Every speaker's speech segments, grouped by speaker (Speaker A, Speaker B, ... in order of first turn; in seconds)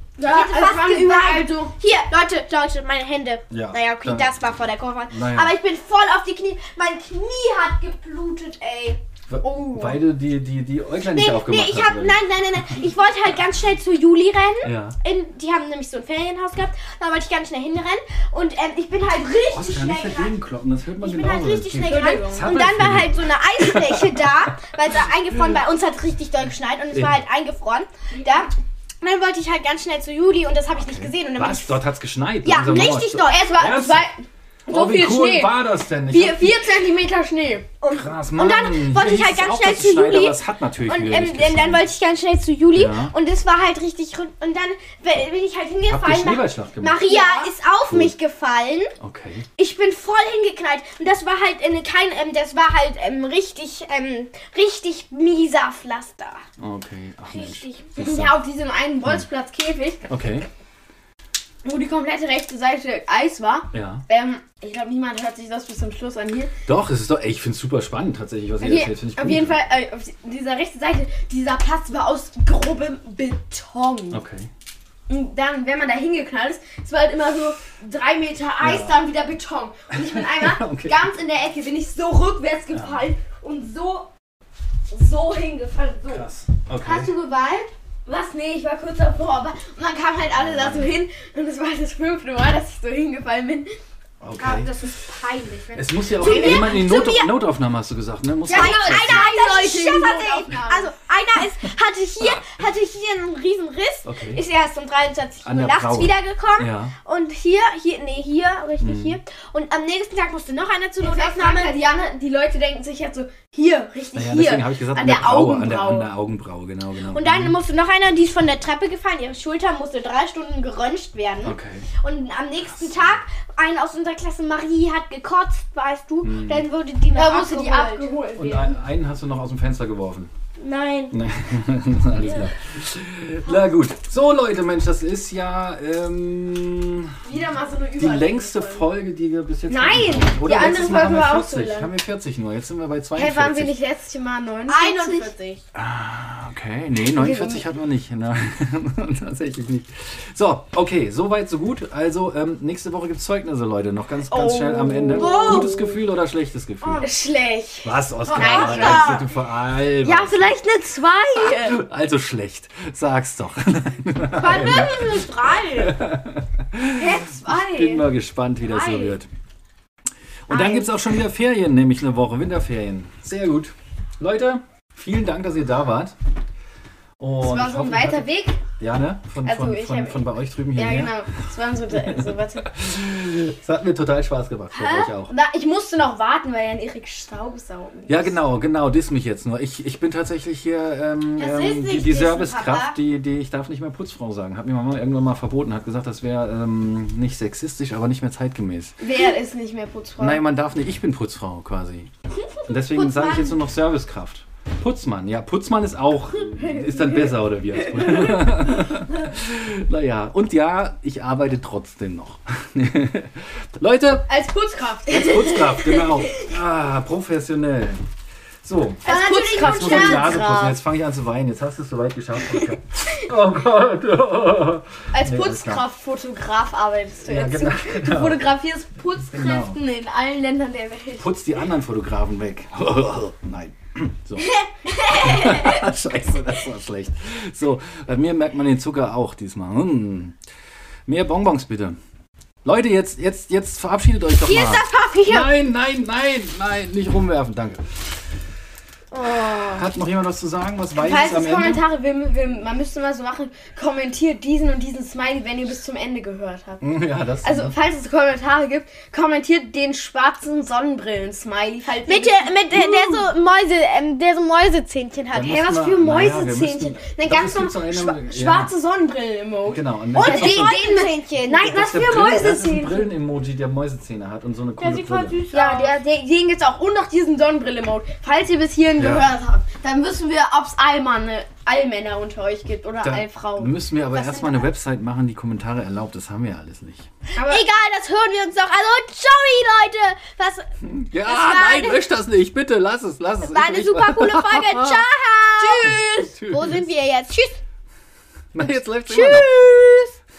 Speaker A: 0.2-1.7, 9.4-10.0, 21.8-22.5, 28.1-28.5, 33.2-37.7, 47.0-47.5, 58.0-60.1, 61.6-66.5, 68.6-74.2, 75.1-84.1, 84.9-86.3, 88.1-93.7, 96.2-96.8, 98.5-100.9, 111.0-116.1, 127.1-128.8, 137.2-138.9, 139.7-141.9, 143.2-145.4, 147.1-147.6, 154.3-155.9, 157.0-159.2, 160.0-161.8, 166.9-168.1, 168.7-169.2, 170.5-170.9, 177.4-178.6, 179.4-182.8, 184.7-188.4, 199.0-200.4, 206.6-208.4, 214.3-216.4, 219.1-220.8, 225.1-231.3, 251.0-256.9, 257.4-263.3, 265.4-273.1, 275.5-283.8, 287.4-287.6, 295.6-296.3
Speaker B: 0.2-9.0, 11.1-20.4, 21.0-31.8, 32.4-33.8, 37.8-48.9, 49.6-56.4, 57.3-57.9, 86.8-87.7, 94.4-97.3, 98.5-111.8, 117.1-128.1, 130.6-131.2, 144.7-145.6, 155.1-155.9, 158.3-159.3, 164.3-166.0, 191.4-193.0, 202.3-203.6, 219.1-220.4, 234.4-235.8, 244.4-245.5, 249.1-249.9, 262.0-265.6, 270.1-271.6, 274.8-276.0, 284.1-284.6, 287.4-290.7, 291.2-292.1, 293.4-297.6, 299.1-300.2
Speaker C: 3.5-4.5, 5.1-5.6, 9.3-12.2, 14.6-15.0, 19.5-25.6, 26.9-27.2, 30.8-34.1, 34.7-36.7, 37.9-41.9, 42.7-43.1, 45.9-47.1, 47.9-48.1, 49.0-49.5, 56.6-58.4, 60.1-60.5, 63.7-64.0, 66.7-69.6, 74.1-74.5, 78.6-79.0, 79.9-81.0, 82.7-83.0, 86.1-87.1, 90.3-90.9, 94.2-94.8, 95.7-99.3, 104.0-104.4, 105.4-106.9, 108.8-109.2, 114.1-117.6, 121.4-121.9, 122.7-123.2, 126.2-126.7, 128.4-130.3, 131.1-137.2, 138.0-143.8, 145.7-157.1, 157.8-160.6, 161.4-169.3, 170.5-176.2, 177.2-181.3, 181.9-185.3, 188.1-199.0, 200.2-202.1, 202.7-214.3, 215.1-218.0, 218.6-225.8, 227.3-228.5, 229.3-229.8, 231.2-240.4, 241.1-242.0, 242.6-248.2, 249.7-251.8, 256.8-257.7, 265.3-268.7, 269.7-270.8, 271.6-275.4, 279.0-279.3, 283.0-287.1, 290.8-295.1, 295.7-296.9, 298.5-299.5